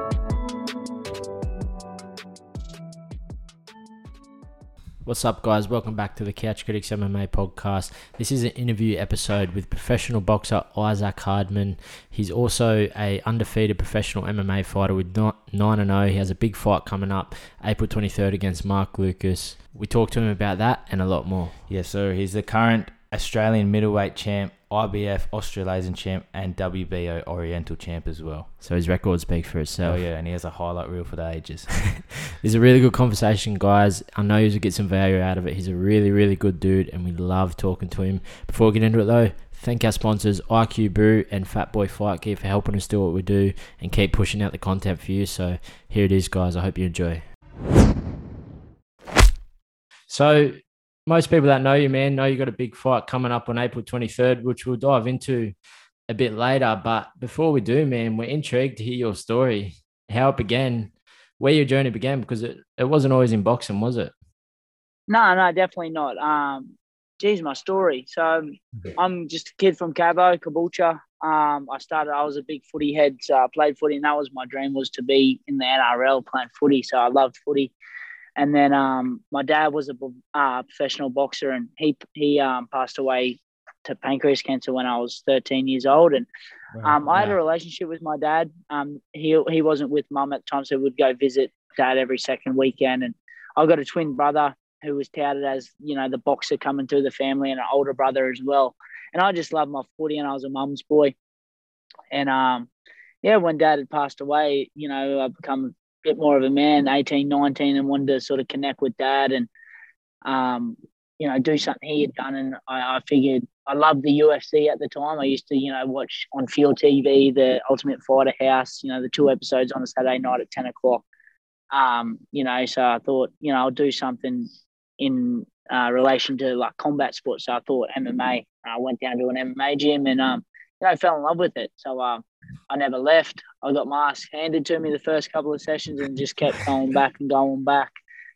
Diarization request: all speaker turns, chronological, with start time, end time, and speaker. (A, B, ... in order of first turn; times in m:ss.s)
0:05.0-0:21.6 A
0:21.7-0:28.5 B
0:28.6-0:30.0 A
0:29.8-0:32.0 B
0:32.4-0:47.3 A
0:50.1-0:55.5 A
0:56.1-1:04.1 A
1:05.1-1:17.7 C
1:18.4-1:26.3 C
1:26.8-1:41.2 C
1:42.1-1:42.7 C
1:43.2-1:49.5 C
1:50.2-2:01.0 C
2:01.7-2:17.9 C